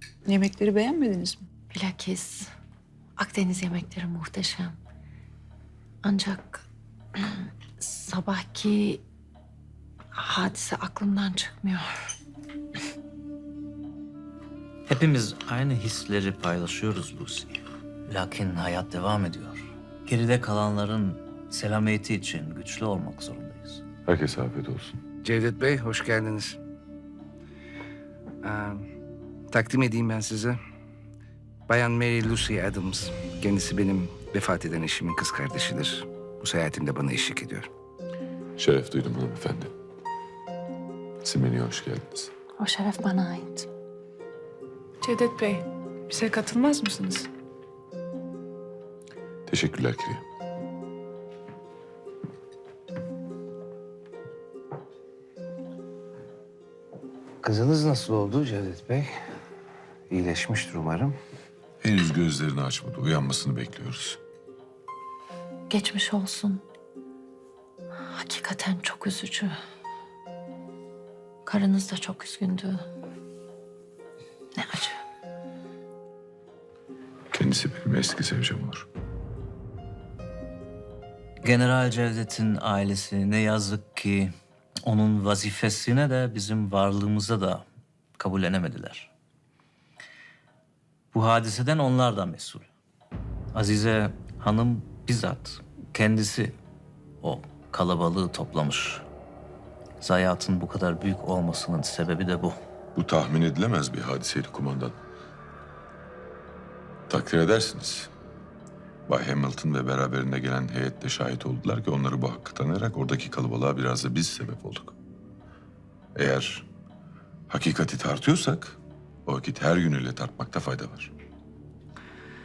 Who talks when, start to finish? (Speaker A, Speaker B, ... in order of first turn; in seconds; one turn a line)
Speaker A: 0.3-1.4
Speaker B: 1.7-2.5
Speaker B: 3.2-4.8
Speaker B: 6.0-9.0
Speaker B: 10.2-11.9
Speaker C: 14.8-17.5
Speaker C: 18.1-23.8
Speaker D: 24.1-25.0
Speaker E: 25.2-26.6
Speaker E: 28.4-28.9
Speaker E: 29.5-30.6
Speaker E: 31.7-37.7
Speaker D: 38.6-39.7
Speaker D: 41.2-42.3
Speaker B: 42.6-43.7
Speaker A: 45.0-45.6
Speaker A: 46.1-47.3
Speaker D: 49.5-50.2
Speaker E: 57.4-59.3
Speaker E: 60.1-61.1
Speaker D: 61.8-64.2
Speaker B: 65.7-66.6
Speaker B: 68.0-69.5
Speaker B: 71.5-72.8
Speaker B: 74.5-75.0
Speaker D: 77.3-78.8
Speaker C: 81.4-84.3
Speaker C: 84.8-87.6
Speaker C: 88.2-89.1
Speaker C: 91.1-92.7
Speaker C: 93.5-96.5
Speaker C: 97.2-99.0
Speaker C: 100.0-102.6
Speaker D: 102.9-104.9
Speaker D: 107.1-108.1
Speaker D: 109.1-114.9
Speaker D: 116.1-116.7
Speaker D: 117.5-121.1